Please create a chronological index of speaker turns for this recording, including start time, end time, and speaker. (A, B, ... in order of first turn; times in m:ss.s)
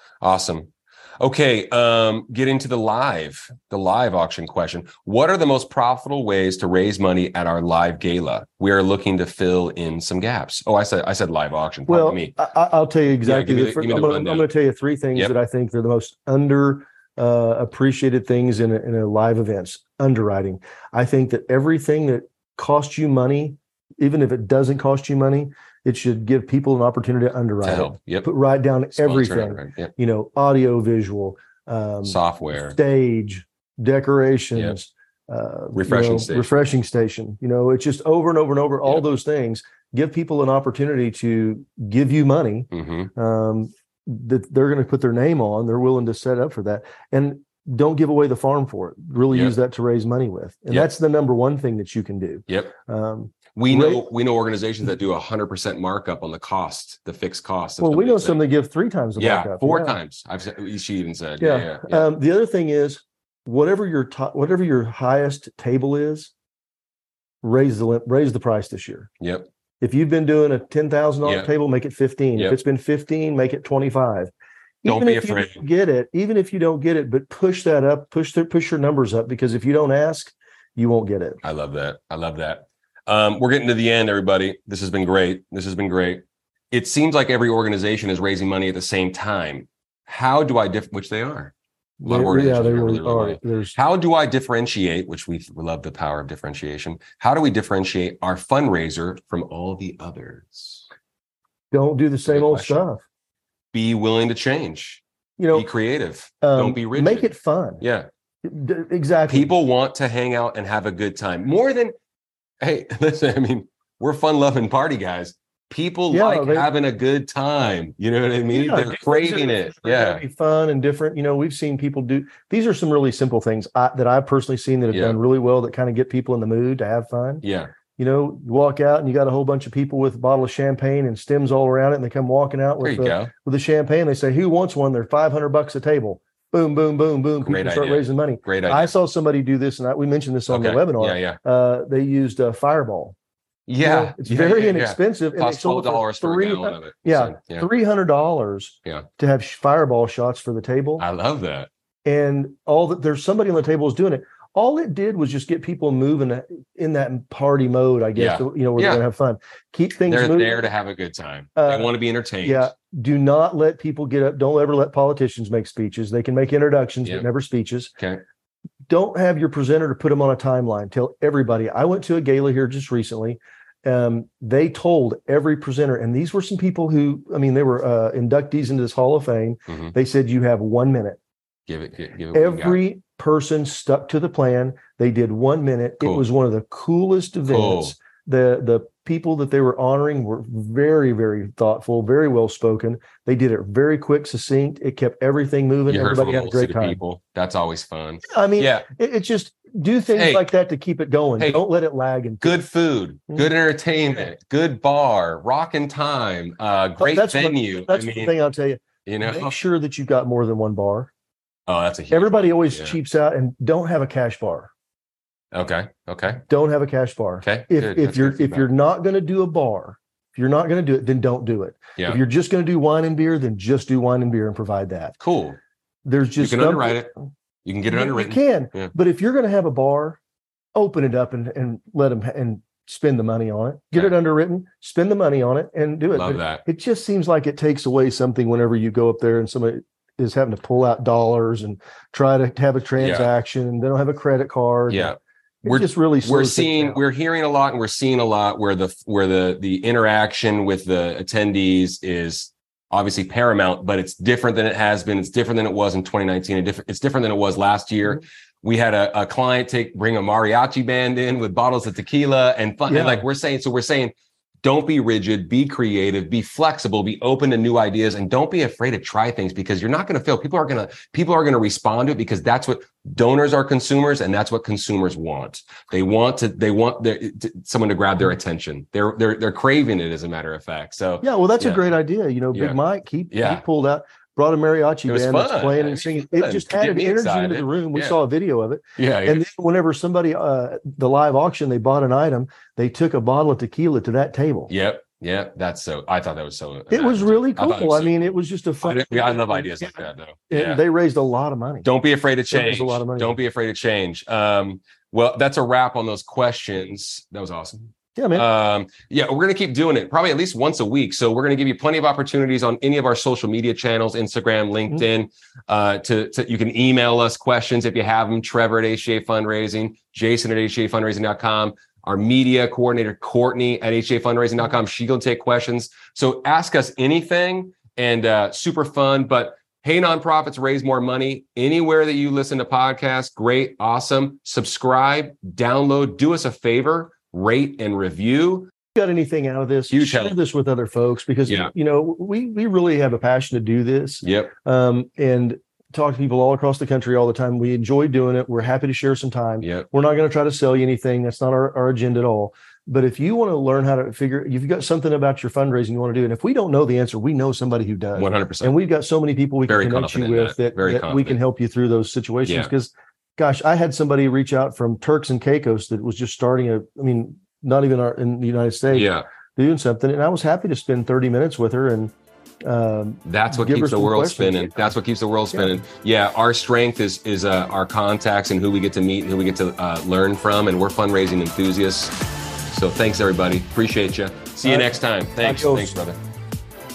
0:00.2-0:00.7 A
0:01.2-0:12.4 A
0:11.9-0:54.0 B
0:13.2-0:14.5 A
0:27.6-0:28.3 A
0:29.0-0:29.9 A
0:32.0-0:32.8 A
0:35.8-0:36.7 A
0:42.7-0:43.1 A
0:49.3-0:49.6 A
0:52.5-0:52.7 A
0:53.6-0:58.4 A
0:57.8-1:00.0 B
0:59.2-1:02.1 A
1:01.4-1:06.3 B
1:07.4-1:09.1 B
1:09.2-1:09.5 A
1:09.8-1:14.3 B
1:11.2-1:11.5 A
1:14.8-1:21.4 B
1:14.8-1:15.6 A
1:21.4-1:31.5 A
1:32.0-1:33.8 B
1:32.0-1:40.9 A
1:41.7-1:43.0 B
1:42.3-1:42.8 A
1:43.7-1:45.0 A
1:45.4-1:45.7 B
1:45.5-1:47.3 A
1:46.4-1:47.8 B
1:47.8-1:48.1 A
1:48.4-1:49.5 B
1:49.3-1:51.9 A
1:52.6-2:00.2 A
1:56.1-1:56.7 B
1:58.5-2:07.4 B
2:04.9-2:05.2 A
2:07.4-2:07.7 A
2:08.0-2:23.2 B
2:12.8-2:13.3 A
2:17.4-2:18.9 A
2:20.5-2:21.4 A
2:23.7-2:27.7 A
2:23.8-2:31.0 B
2:31.0-2:31.7 A
2:32.0-2:40.7 B
2:38.2-2:39.0 A
2:40.1-2:42.7 A
2:41.6-2:47.9 B
2:48.0-2:48.2 A
2:48.9-3:01.2 B
2:59.7-2:59.9 A
3:01.7-3:02.8 A
3:02.3-3:17.0 B
3:07.5-3:08.0 A
3:15.9-3:18.9 A
3:18.3-3:22.6 B
3:20.1-3:20.5 A
3:21.4-3:21.6 A
3:22.4-3:28.4 A
3:27.0-3:31.1 B
3:29.1-3:29.6 A
3:31.7-3:33.0 A
3:32.1-3:34.7 B
3:35.5-3:36.4 A
3:36.5-3:45.1 B
3:37.4-3:38.7 A
3:45.2-3:45.6 A
3:46.0-3:47.1 B
3:46.4-3:47.1 A
3:47.6-3:48.9 A
3:47.9-3:50.2 B
3:50.8-4:07.0 B
3:56.1-3:56.6 A
4:03.0-4:03.3 A
4:04.9-4:24.1 A
4:22.9-4:23.2 B
4:24.6-4:41.9 A
4:41.2-4:54.7 B
4:42.5-4:42.8 A
4:43.3-4:43.6 A
4:45.1-4:48.2 A
4:49.0-4:49.5 A
4:54.7-5:00.8 A
4:56.9-5:01.9 B
5:01.8-5:38.7 A
5:02.5-5:03.4 B
5:08.2-5:08.5 B
5:39.0-6:12.1 B
5:39.9-5:40.4 A
5:41.5-5:41.7 A
5:44.2-5:44.5 A
5:58.2-5:58.8 A
5:59.7-6:01.4 A
6:02.4-6:02.7 A
6:08.9-6:09.3 A
6:12.6-6:14.8 B
6:13.2-6:22.2 A
6:15.5-6:15.8 B
6:22.7-6:26.2 A
6:24.6-6:26.0 B